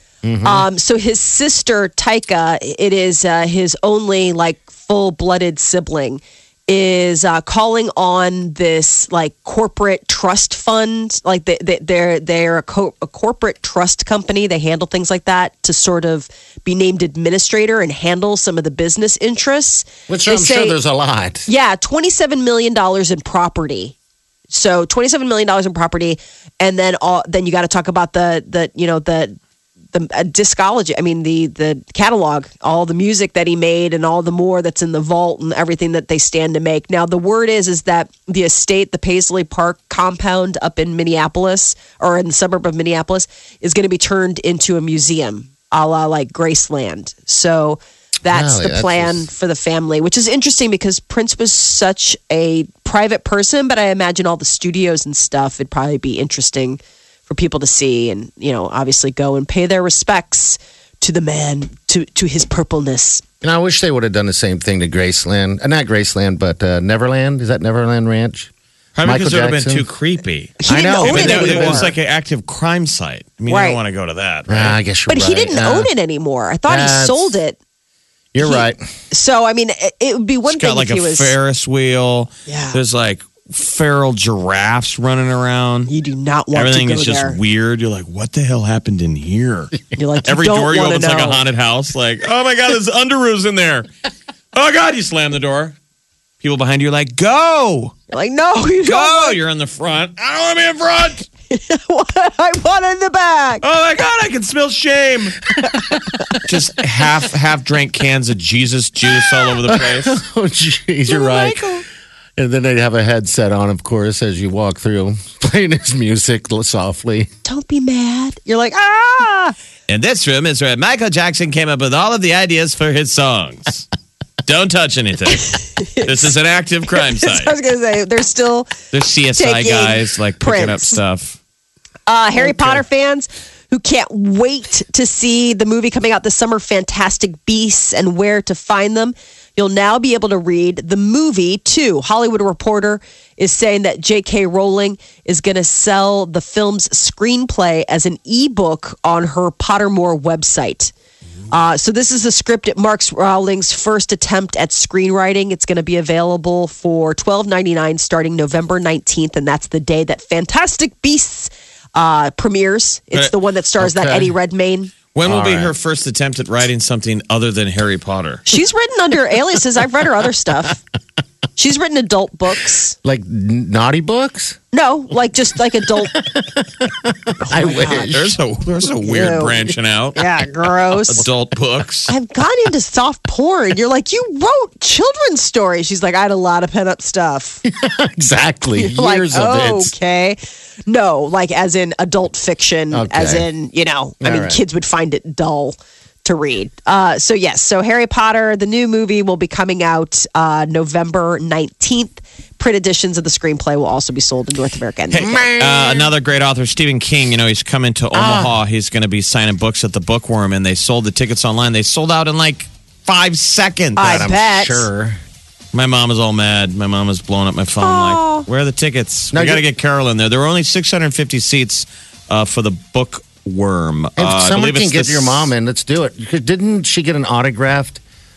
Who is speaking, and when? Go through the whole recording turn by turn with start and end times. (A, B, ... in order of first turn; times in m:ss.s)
0:00.2-0:00.6 A
0:00.4-0:20.8 B
0:20.1-0:21.5 A
0:21.5-0:23.9 B
0:24.5-0:29.4 B
0:29.9-1:03.2 B
0:48.3-0:49.3 A
1:03.4-1:08.5 A
1:09.0-1:14.8 C
1:09.0-1:09.8 A
1:10.6-1:11.9 B
1:10.7-1:11.9 A
1:13.5-1:13.8 B
1:14.5-1:15.9 A
1:15.1-1:17.6 B
1:16.7-1:17.3 A
1:18.3-1:18.9 A
1:18.4-1:21.3 B
1:20.5-1:25.9 C
1:22.5-1:22.8 B
1:25.9-1:27.4 B
1:26.5-1:33.9 C
1:29.9-1:31.4 B
1:34.5-1:35.7 C
1:36.4-1:38.0 C
1:38.1-1:39.4 B
1:38.8-1:41.3 C
1:41.5-1:43.6 B
1:43.6-1:45.4 C
1:45.7-1:46.0 A
1:46.4-1:50.2 C
1:49.6-1:51.7 A
1:51.1-1:51.8 B
1:52.4-1:57.3 A
1:57.4-1:59.5 B
1:59.9-2:03.9 C
2:04.4-2:07.5 C
2:05.8-2:06.3 B
2:06.9-2:08.8 B
2:08.9-2:11.4 C
2:09.4-2:11.0 B
2:12.1-2:30.9 B
2:12.5-2:12.8 A
2:31.5-2:44.9 B
2:43.8-2:44.3 A
2:45.1-2:48.4 C
2:45.2-2:45.7 A
2:48.5-2:50.8 B
2:51.6-2:53.0 B
2:53.0-2:54.6 A
2:54.7-2:56.2 B
2:56.1-2:58.4 A
2:57.4-2:58.0 B
2:57.8-3:00.2 C
2:59.0-3:01.2 B
3:00.9-3:02.1 C
3:02.1-3:07.6 B
3:07.6-3:09.9 A
3:08.8-3:25.5 B
3:12.9-3:13.5 A
3:14.2-3:14.6 A
3:25.1-3:26.1 A
3:25.6-3:34.3 C
3:28.1-3:28.5 A
3:34.0-3:34.9 B
3:34.0-3:35.2 A
3:35.7-3:45.5 C
3:37.8-3:38.4 B
3:39.3-3:39.6 A
3:44.2-3:48.0 A